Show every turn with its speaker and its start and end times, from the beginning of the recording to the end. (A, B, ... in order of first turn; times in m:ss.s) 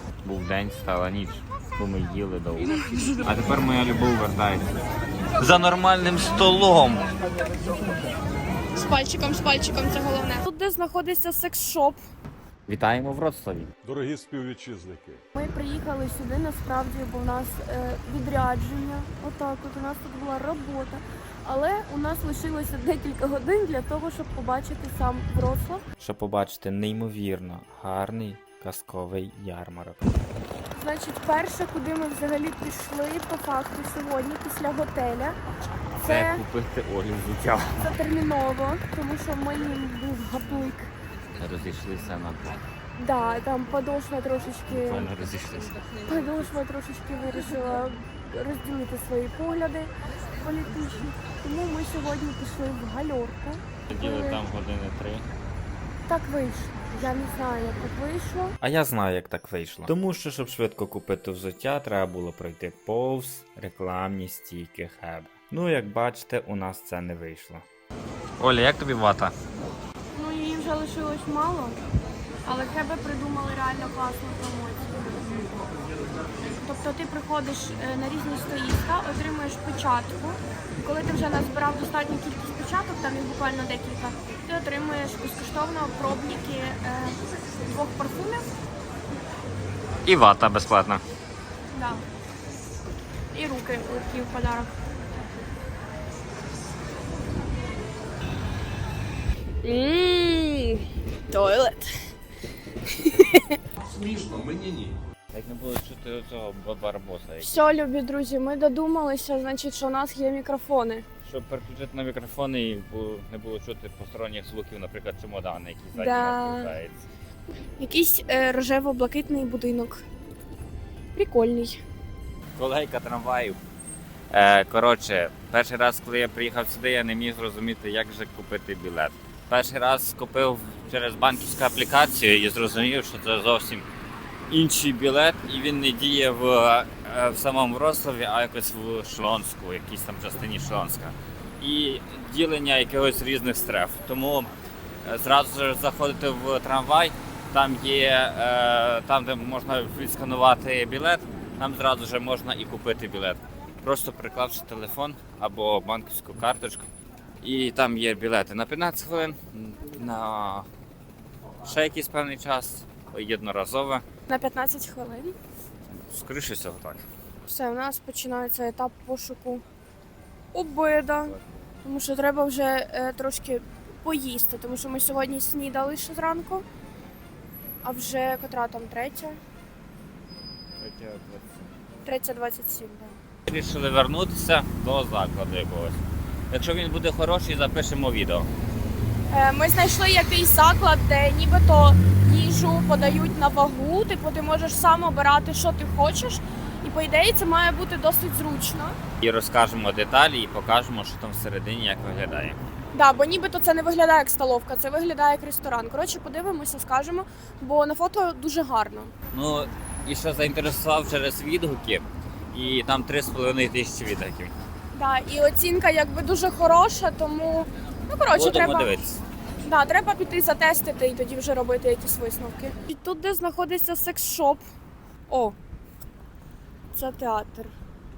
0:00.2-0:04.7 A
0:02.8-0:03.2 B
0:05.4-0:07.1 A
0:08.7-0:12.0 B
0:12.7-0:13.7 A
0:13.8-0:15.2 C
0:15.4-0:25.8 B
0:26.0-0:30.1 A
0:30.7-0:35.4 B
0:36.0-0:37.9 A
0:36.0-0:36.4 B
0:37.8-0:40.9 B
0:41.4-0:42.6 A
0:43.0-0:45.1 B
0:44.7-0:45.8 A
0:46.0-0:54.4 B
0:53.9-0:55.2 A
0:56.1-0:58.6 B
0:58.6-1:07.6 A
1:08.4-1:09.3 A
1:10.1-1:11.8 B
1:12.4-1:15.3 B
1:16.5-1:28.4 B
1:30.0-1:31.0 A
1:31.7-1:32.0 B
1:33.3-1:34.7 B
1:39.6-1:41.9 B
1:42.9-1:43.6 B
1:43.8-1:45.0 C
1:45.3-1:47.6 A
1:47.4-1:51.0 B
1:51.2-1:57.0 A
1:55.9-1:56.7 B
1:57.8-2:00.0 B
2:01.1-2:01.8 B
2:02.6-2:03.6 A
2:04.3-2:13.9 A
2:14.5-2:36.9 A
2:37.4-2:40.7 A
2:41.6-2:44.0 A
2:44.3-2:45.3 B
2:46.0-2:47.0 A
2:47.4-2:49.6 B
2:50.5-2:56.6 B
2:51.3-2:51.5 A
2:57.8-2:59.4 B
3:00.8-3:01.7 A
3:02.0-3:03.2 B
3:03.5-3:06.0 A
3:06.5-3:08.5 A
3:09.3-3:19.0 B
3:19.2-3:22.6 A
3:22.9-3:29.1 B
3:29.3-3:34.5 A
3:34.9-3:39.0 B
3:38.3-3:39.2 A
3:39.6-3:44.6 B
3:45.3-3:45.6 B
3:46.9-3:47.7 B